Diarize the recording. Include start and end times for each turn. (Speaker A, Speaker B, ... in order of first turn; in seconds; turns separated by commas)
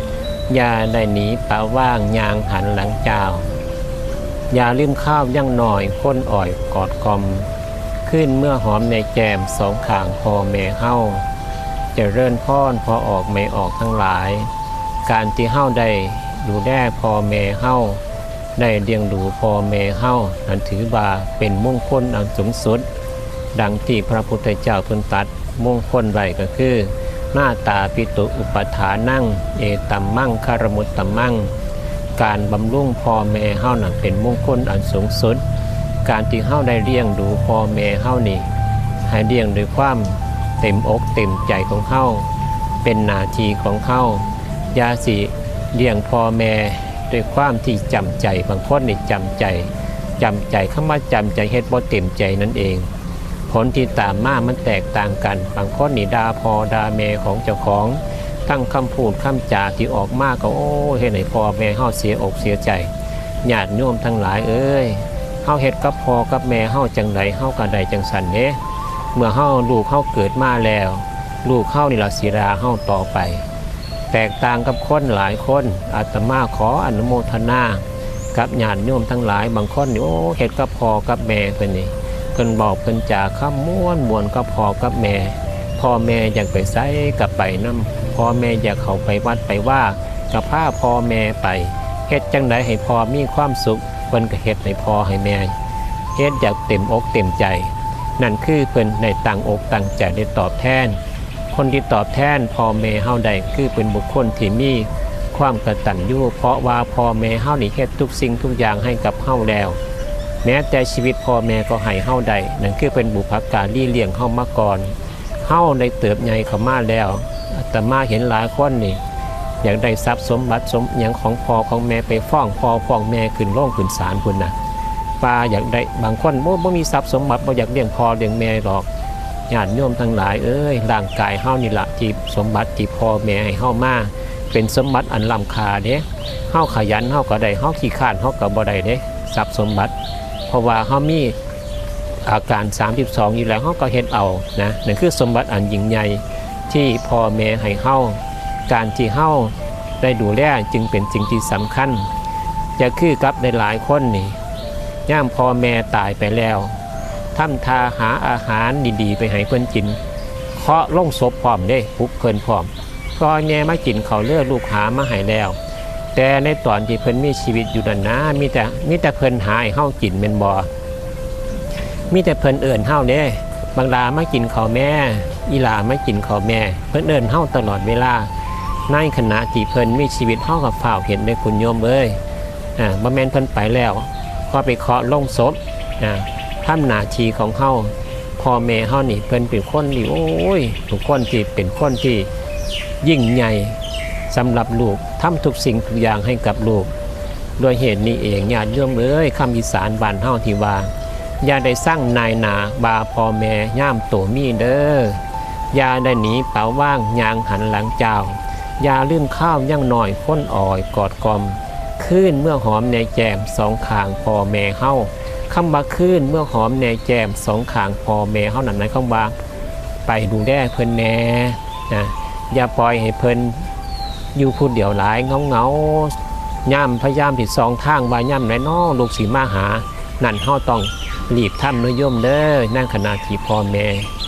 Speaker A: 0.5-3.5, Speaker A: 4.5-7.5, Speaker A: 8.1-11.3, Speaker A: 11.9-14.5, Speaker A: 15.1-18.0, Speaker A: 18.6-22.9, Speaker A: 23.5-31.5, Speaker A: 32.2-35.4, Speaker A: 36.0-38.5, Speaker A: 39.1-42.3, Speaker A: 42.8-52.9, Speaker A: 53.5-62.9, Speaker A: 63.4-68.6, Speaker A: 69.1-73.5, Speaker A: 74.1-95.5, Speaker A: 96.2-101.0, Speaker A: 101.5-109.8, Speaker A: 110.4-119.0, Speaker A: 119.6-124.6, Speaker A: 125.2-128.9, Speaker A: 129.5-139.9, Speaker A: 140.5-141.4, Speaker A: 142.2-152.1, Speaker A: 152.8-154.4, Speaker A: 155.1-156.8, Speaker A: 157.3-160.0, Speaker A: 160.6-165.6, Speaker A: 166.1-170.7, Speaker A: 172.1-178.3, Speaker A: 178.9-182.2, Speaker A: 182.8-192.3, Speaker A: 193.0-196.9, Speaker A: 197.6-219.3, Speaker A: 220.1-223.7, Speaker A: 224.3-234.1